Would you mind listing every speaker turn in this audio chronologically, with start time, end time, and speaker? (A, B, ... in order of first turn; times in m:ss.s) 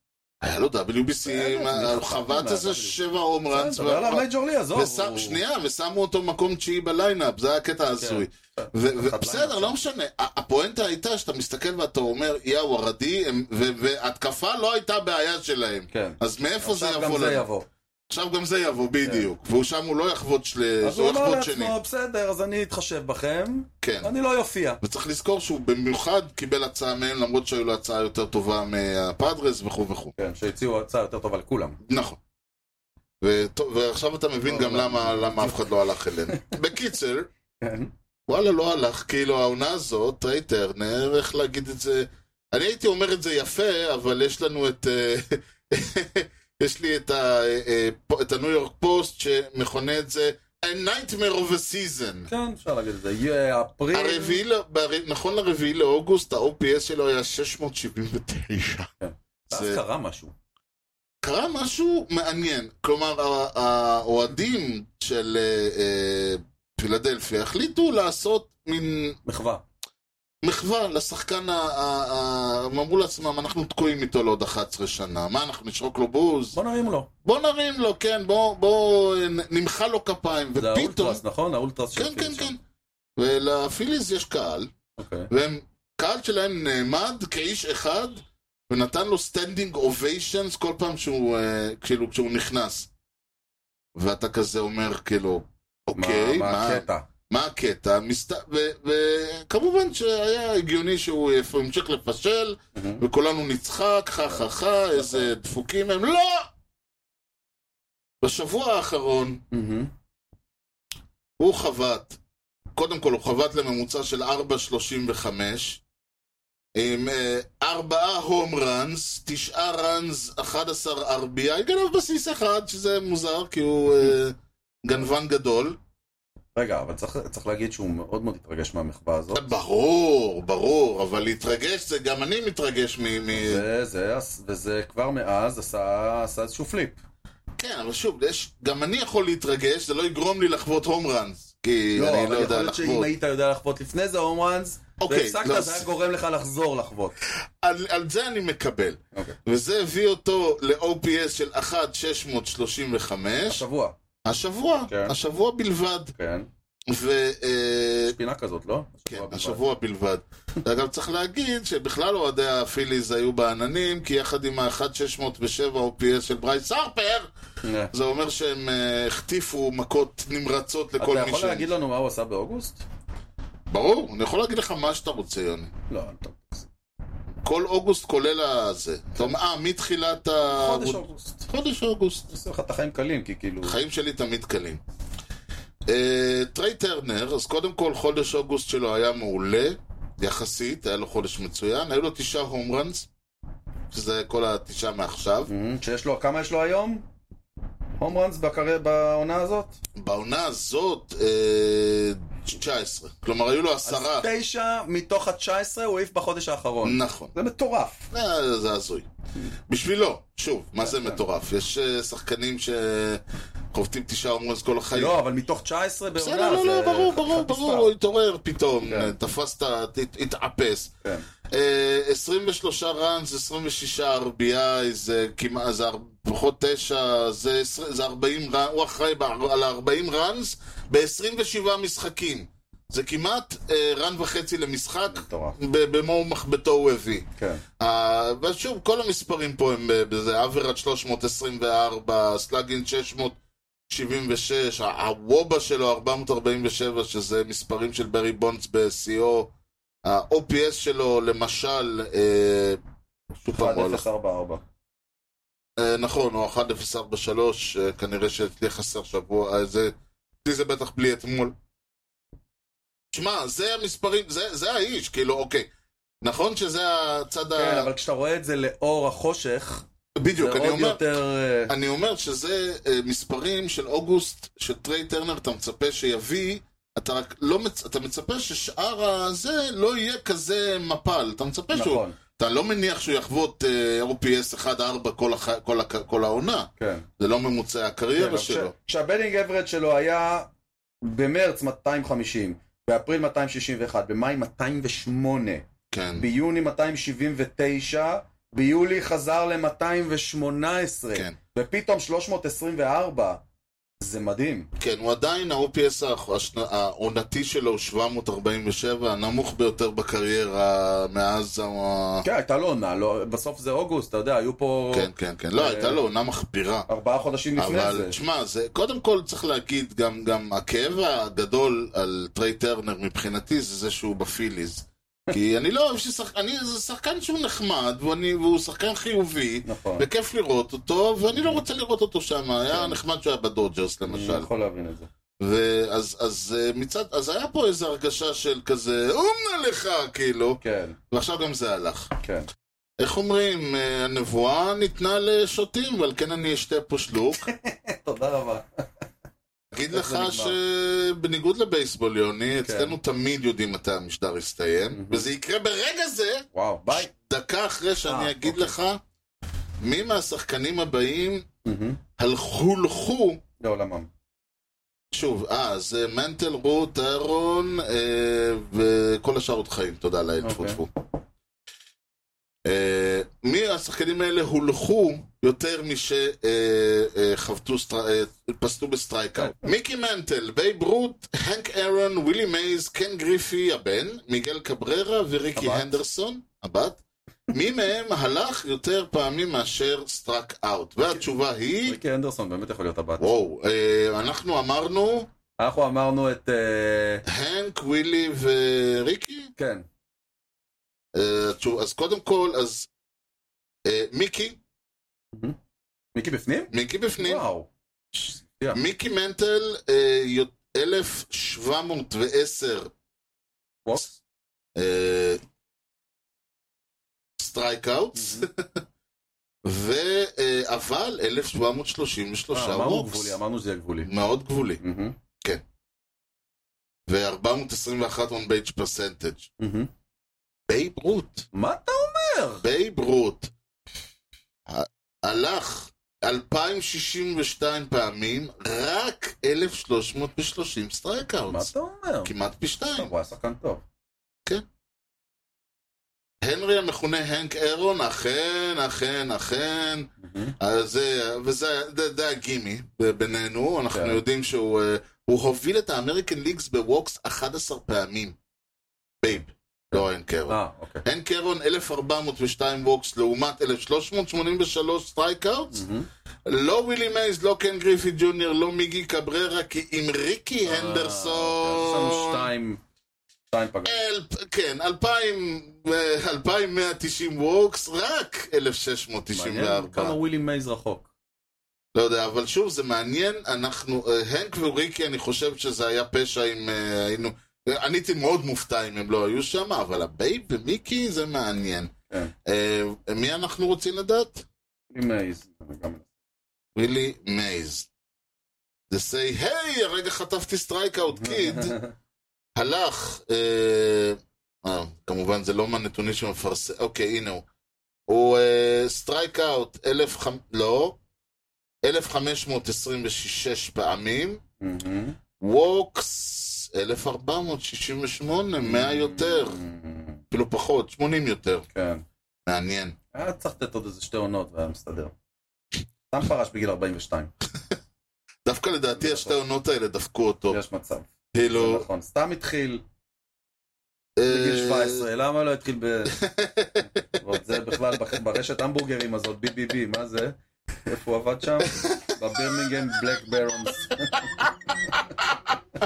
0:00.4-0:17.4 A
0:01.2-0:03.0 B
0:03.5-0:05.4 B
0:08.0-0:09.8 B
0:15.9-0:17.7 B
0:18.1-0:21.7 A
0:20.8-0:24.8 B
0:23.8-0:24.1 A
0:24.8-0:30.1 A
0:30.2-0:31.8 B
0:31.8-0:32.2 A
0:33.2-0:37.3 A
0:34.4-0:35.7 B
0:37.6-0:37.9 B
0:38.3-0:52.3 A
0:52.3-0:54.4 B
0:53.9-0:58.9 A
0:59.0-1:00.3 B
0:59.5-0:59.8 A
1:01.2-1:09.2 A
1:09.2-1:09.6 B
1:10.4-1:16.6 A
1:16.5-1:17.1 B
1:17.2-1:21.2 A
1:20.6-1:22.5 B
1:21.9-1:22.6 A
1:23.2-1:24.7 A
1:25.0-1:25.3 B
1:25.3-1:32.9 A
1:34.0-1:46.5 A
1:35.9-1:37.0 B
1:42.7-1:43.0 B
1:44.2-1:45.3 B
1:48.2-1:49.4 A
1:49.5-1:49.9 B
1:51.4-1:52.2 A
1:52.7-1:55.8 A
1:56.7-2:05.8 A
2:06.5-2:09.5 B
2:09.3-2:13.6 A
2:13.4-2:17.0 B
2:17.6-2:23.1 A
2:21.9-2:27.2 B
2:25.0-2:25.9 A
2:27.6-2:33.6 A
2:33.4-2:34.0 B
2:34.2-2:36.1 A
2:34.9-2:35.2 B
2:36.1-2:36.5 B
2:36.9-2:38.2 A
2:38.0-2:39.6 B
2:39.0-2:47.3 A
2:47.6-2:47.9 B
2:47.9-2:51.7 A
2:51.0-2:52.8 B
2:53.7-2:55.7 A
2:55.9-2:56.7 B
2:57.4-3:02.3 A
3:00.5-3:01.5 B
3:02.3-3:03.8 B
3:03.6-3:04.8 A
3:05.9-3:13.1 A
3:13.9-3:15.5 A
3:15.5-3:17.0 B
3:18.0-3:19.8 B
3:20.0-3:24.3 A
3:23.8-3:28.1 B
3:26.8-3:27.3 A
3:28.1-3:29.0 A
3:29.7-3:33.2 A
3:30.8-3:31.2 B
3:33.7-3:35.2 A
3:34.9-3:37.9 B
3:36.1-3:40.9 A
3:38.8-3:39.1 B
3:41.5-3:57.2 A
3:55.1-3:55.6 B
3:57.4-3:57.6 B
3:57.8-4:03.4 A
4:03.9-4:09.5 A
4:10.0-4:12.8 A
4:13.4-4:14.0 A
4:13.5-4:14.6 B
4:15.8-4:19.9 A
4:20.4-4:21.5 A
4:23.1-4:25.7 A
4:26.2-4:27.9 A
4:27.5-4:29.8 B
4:30.2-4:31.0 A
4:30.4-4:31.7 B
4:31.7-4:48.7 A
4:41.7-4:42.2 B
4:46.8-4:47.0 B
4:48.1-4:50.5 B
4:51.0-4:55.6 B
4:55.9-4:56.3 A
4:56.2-5:03.4 B
5:04.0-5:04.7 B
5:04.8-5:12.2 A
5:12.2-5:16.0 B
5:14.9-5:16.9 A
5:16.9-5:18.1 B
5:17.6-5:34.5 A
5:29.6-5:30.0 B
5:31.3-5:31.6 B
5:32.7-5:33.0 B
5:34.1-5:35.1 B
5:35.4-5:40.6 A
5:40.6-5:41.0 B
5:41.1-5:42.1 A
5:42.2-5:42.5 B
5:43.0-5:47.5 A
5:47.5-5:48.8 B
5:49.7-5:59.0 A
5:49.9-5:50.6 B
5:52.6-5:52.9 B
5:54.9-5:55.2 B
5:56.5-5:57.1 B
5:58.0-5:58.7 B
5:59.8-6:01.5 A
6:01.6-6:02.0 B
6:02.2-6:03.4 A
6:03.6-6:04.1 B
6:05.1-6:10.9 A
6:10.4-6:10.8 B
6:12.6-6:32.0 A
6:25.6-6:26.0 B
6:31.8-6:33.2 B
6:33.2-6:35.3 A
6:35.6-6:37.2 B
6:37.2-6:39.5 A
6:39.6-6:39.8 B
6:41.1-6:42.9 A
6:43.8-6:44.6 A
6:46.1-6:47.7 B
6:46.7-6:47.5 A
6:48.2-6:52.9 A
6:54.8-6:55.4 A
6:57.4-6:58.7 A
6:58.2-6:58.5 B
6:59.6-7:03.4 A
7:02.5-7:04.1 B
7:04.0-7:04.8 A
7:04.8-7:05.2 B
7:07.1-7:09.5 A
7:09.6-7:09.9 B
7:10.7-7:11.5 A
7:11.5-7:12.6 B
7:12.6-7:13.5 A
7:14.7-7:21.7 A
7:21.5-7:22.3 B
7:22.2-7:23.1 A
7:23.0-7:23.8 B
7:26.4-7:38.3 A
7:30.2-7:30.5 B
7:33.9-7:34.2 B
7:39.2-7:45.8 A
7:39.9-7:41.0 B
7:45.7-7:46.1 B
7:46.4-7:52.5 A
7:50.6-7:52.8 B
7:53.5-7:54.0 B
7:53.8-8:00.2 A
7:59.3-8:01.1 B
8:01.9-8:11.9 A
8:12.4-8:14.4 A
8:14.9-8:16.1 B
8:16.8-8:17.9 A
8:18.9-8:21.8 A
8:21.1-8:21.9 B
8:22.6-8:27.4 A
8:28.1-8:31.0 A
8:31.8-8:34.4 A
8:34.6-8:35.2 B
8:35.4-8:39.6 A
8:38.6-8:40.2 B
8:40.3-8:41.6 A
8:41.7-8:42.0 B
8:42.4-8:43.0 A
8:43.1-8:45.1 B
8:46.1-8:47.3 B
8:48.4-8:50.6 A
8:49.0-8:49.4 B
8:50.5-8:52.8 B
8:51.3-8:51.8 A
8:54.2-8:55.0 A
8:54.3-8:56.1 B
8:56.1-8:57.0 A
8:57.2-9:04.3 B